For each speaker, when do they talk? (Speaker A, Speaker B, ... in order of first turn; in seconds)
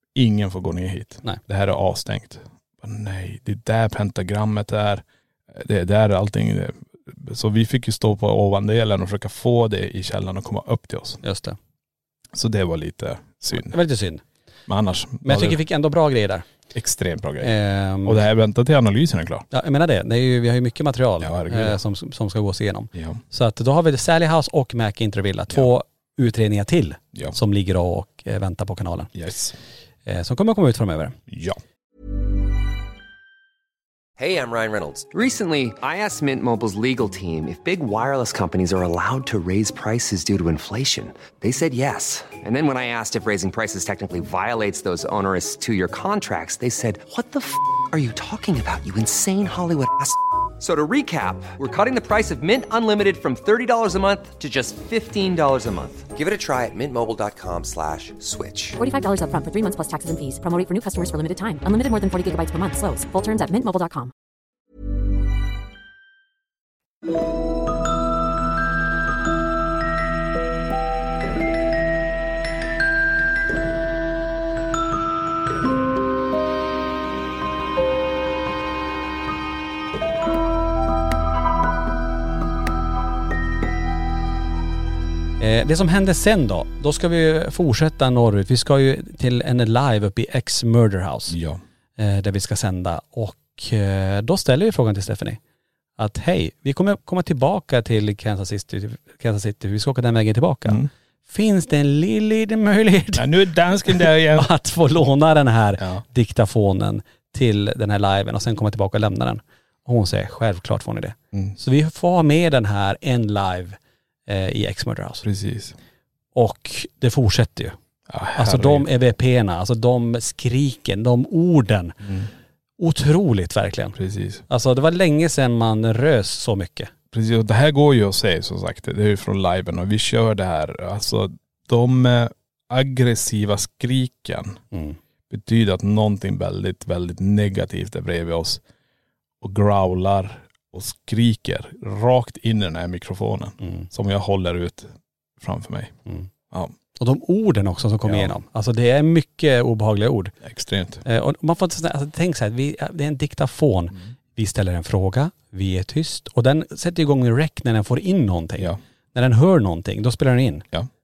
Speaker A: 0.1-11.2, 12.3-13.8, 14.7-15.6, 16.7-19.5, 21.2-21.8, 22.9-23.2, 29.1-29.6, 31.3-31.6, 91.3-91.6, 103.2-104.5, 115.2-115.8, 118.1-118.9, 124.0-124.4, 127.1-134.6, 135.3-138.6, 139.4-145.9, 148.0-148.3, 150.4-151.0
Speaker B: 11.2-11.6, 13.5-14.2, 15.2-16.5, 17.4-18.2, 19.5-29.1, 30.1-31.2, 85.4-91.4, 92.0-95.4, 96.0-103.3, 103.8-115.2, 116.3-117.8, 118.4-122.0, 122.8-124.0, 124.5-126.9, 134.7-135.0, 143.6-143.9, 147.0-150.3, 151.1-160.7
Speaker C: 34.2-58.8
Speaker D: 58.8-64.1